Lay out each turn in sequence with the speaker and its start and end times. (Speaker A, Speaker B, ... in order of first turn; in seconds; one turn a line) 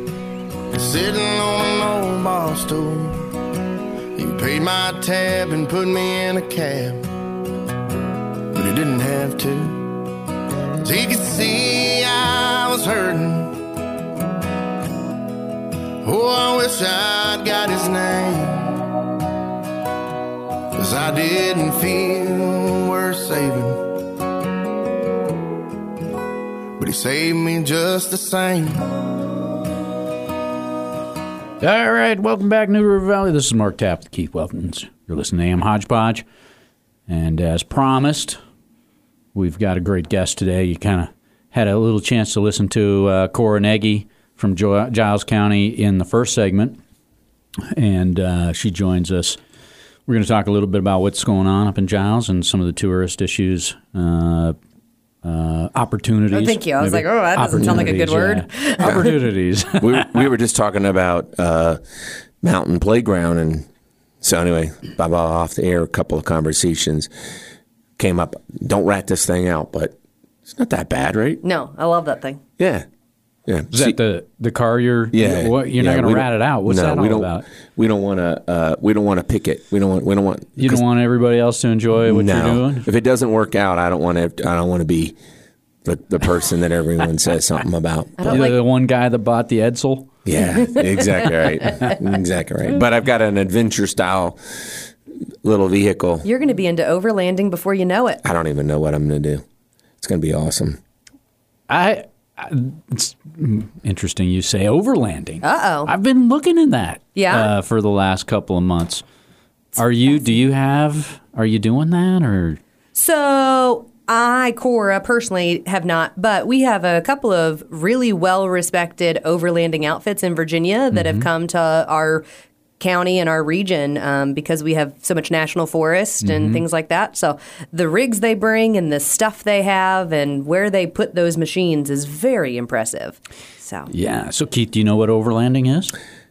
Speaker A: 0.7-3.3
Speaker A: 4.2-7.0
Speaker A: 8.5-10.0
Speaker A: 10.8-13.6
Speaker A: 16.0-18.9
Speaker A: 20.8-23.8
Speaker A: 26.8-28.8
Speaker B: 31.6-36.2
Speaker B: 37.1-38.4
Speaker B: 39.4-46.8
Speaker B: 47.7-49.4
Speaker B: 50.1-54.5
Speaker B: 55.2-60.3
Speaker C: 56.3-59.1
Speaker D: 59.8-61.8
Speaker D: 62.4-63.6
Speaker D: 64.2-67.1
Speaker D: 68.0-70.0
Speaker D: 70.5-71.4
Speaker C: 71.4-72.4
Speaker D: 72.6-72.9
Speaker D: 73.5-74.0
Speaker B: 73.7-77.5
Speaker D: 75.1-80.8
Speaker B: 80.6-82.9
Speaker D: 82.1-85.2
Speaker D: 85.8-88.5
Speaker C: 88.2-88.6
Speaker B: 88.2-90.1
Speaker D: 90.2-94.4
Speaker C: 90.4-91.5
Speaker D: 95.4-96.3
Speaker C: 96.2-98.2
Speaker D: 98.2-99.4
Speaker D: 100.0-100.8
Speaker B: 101.7-109.0
Speaker C: 105.4-105.9
Speaker C: 107.2-107.5
Speaker B: 109.8-112.6
Speaker C: 112.9-122.2
Speaker B: 120.9-121.3
Speaker C: 122.8-133.9
Speaker B: 126.2-126.6
Speaker B: 133.9-135.9